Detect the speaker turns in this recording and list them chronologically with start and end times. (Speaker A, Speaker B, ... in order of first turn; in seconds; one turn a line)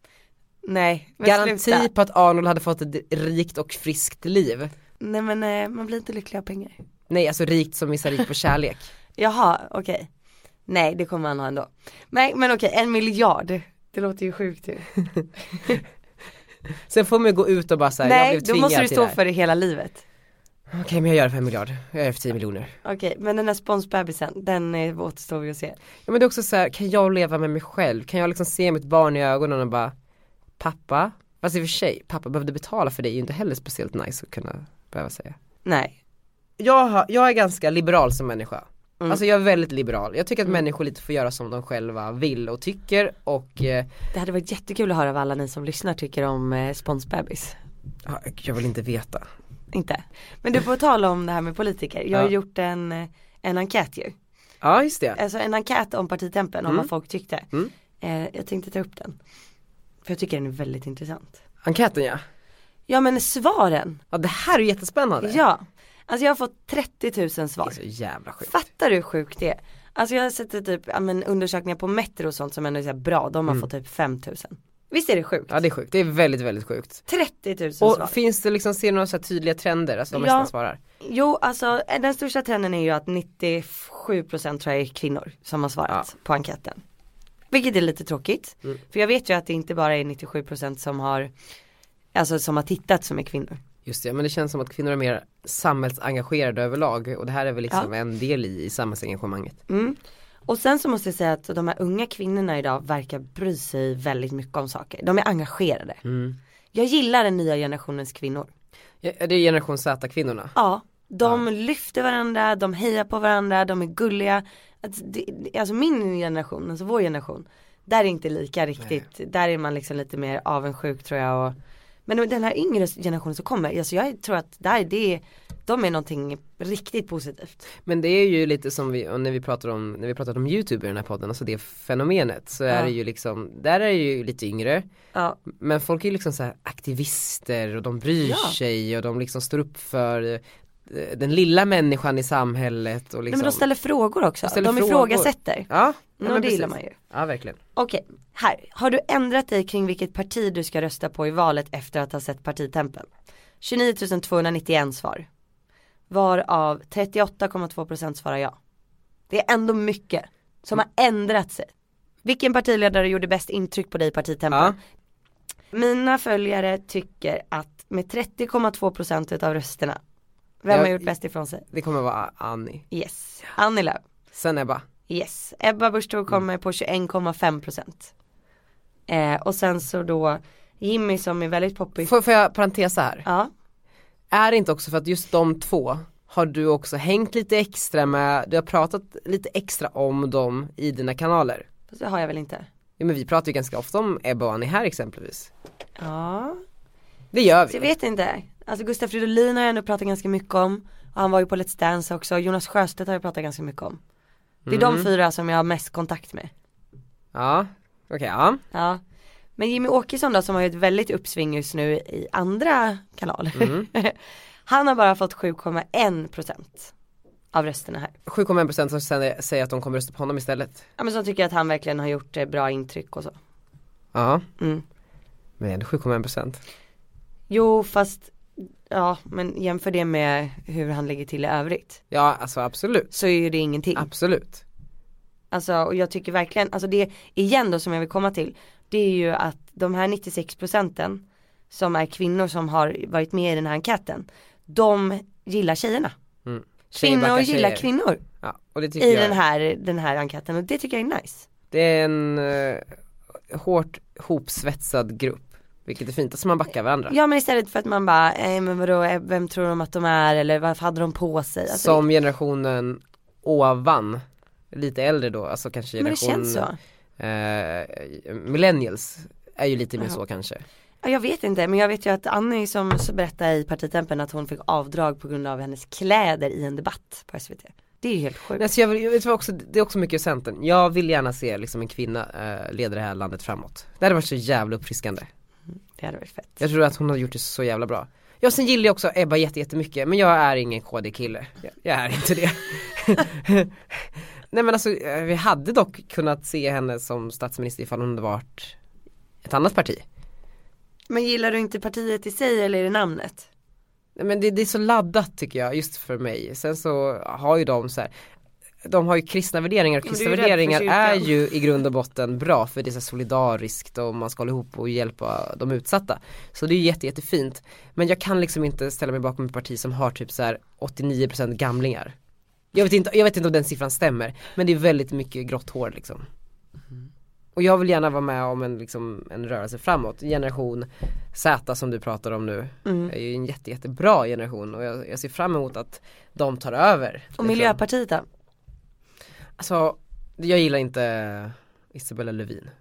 Speaker A: 0.6-1.9
Speaker B: 1.2-4.7
Speaker A: 5.0-6.8
Speaker B: 7.1-8.9
Speaker A: 9.2-10.1
Speaker A: 10.7-14.9
Speaker B: 16.9-19.2
Speaker A: 18.0-20.0
Speaker B: 20.7-22.7
Speaker A: 22.8-25.8
Speaker B: 26.1-29.9
Speaker B: 30.6-35.4
Speaker A: 35.6-36.0
Speaker B: 36.6-43.9
Speaker A: 44.1-47.6
Speaker B: 48.0-49.3
Speaker A: 49.7-54.1
Speaker B: 54.6-55.2
Speaker A: 55.1-57.5
Speaker A: 58.0-59.2
Speaker A: 60.0-61.4
Speaker B: 61.6-62.2
Speaker A: 62.9-64.0
Speaker B: 64.1-65.4
Speaker A: 65.2-67.8
Speaker B: 67.6-68.5
Speaker A: 68.4-75.6
Speaker B: 75.5-77.0
Speaker A: 77.1-78.1
Speaker B: 77.8-80.8
Speaker A: 80.1-86.8
Speaker A: 87.5-91.3
Speaker A: 92.1-93.6
Speaker B: 93.8-99.6
Speaker A: 99.7-106.0
Speaker B: 106.0-106.4
Speaker A: 106.7-108.5
Speaker B: 109.0-110.5
Speaker A: 110.5-127.6
Speaker B: 127.8-134.8
Speaker A: 135.1-135.4
Speaker B: 135.5-143.6
Speaker A: 138.2-138.6
Speaker A: 143.3-147.0
Speaker B: 144.4-147.6
Speaker A: 147.8-153.1
Speaker A: 153.6-155.3
Speaker A: 156.1-158.6
Speaker A: 159.3-161.7
Speaker A: 162.2-164.8
Speaker B: 164.5-164.8
Speaker A: 165.7-170.0
Speaker A: 170.6-171.6
Speaker B: 170.7-171.1
Speaker B: 171.7-172.8
Speaker A: 172.9-174.0
Speaker B: 174.3-174.8
Speaker A: 175.1-178.1
Speaker A: 179.1-182.1
Speaker B: 182.0-183.2
Speaker A: 183.2-183.5
Speaker B: 184.3-191.6
Speaker A: 191.9-192.7
Speaker B: 193.0-195.5
Speaker A: 196.0-196.6
Speaker B: 197.3-197.9
Speaker A: 197.7-204.0
Speaker B: 204.7-205.1
Speaker A: 204.7-206.5
Speaker B: 207.3-208.6
Speaker A: 208.7-209.0
Speaker A: 209.6-216.9
Speaker B: 213.5-213.9
Speaker A: 217.5-218.2
Speaker B: 218.3-220.8
Speaker A: 221.0-223.4
Speaker B: 224.1-224.4
Speaker A: 224.6-224.8
Speaker B: 225.6-226.6
Speaker A: 227.5-232.0
Speaker B: 232.1-233.1
Speaker A: 233.1-234.1
Speaker B: 233.9-234.6
Speaker A: 235.5-246.1
Speaker B: 246.4-247.9
Speaker A: 246.9-248.2
Speaker B: 248.4-249.4
Speaker A: 249.0-251.5
Speaker B: 251.7-252.8
Speaker B: 253.5-257.1
Speaker A: 257.1-262.0
Speaker B: 261.7-266.6
Speaker A: 266.0-266.8
Speaker B: 267.2-270.6
Speaker A: 271.0-278.6
Speaker B: 278.6-285.3
Speaker A: 286.0-286.6
Speaker B: 286.6-293.7
Speaker B: 294.5-298.7
Speaker B: 299.4-300.0
Speaker A: 301.1-303.5
Speaker B: 304.1-308.1
Speaker B: 308.8-322.1
Speaker A: 310.0-311.3
Speaker B: 322.7-326.2
Speaker B: 327.6-337.8
Speaker A: 332.8-333.1
Speaker A: 337.4-338.2
Speaker B: 339.6-342.7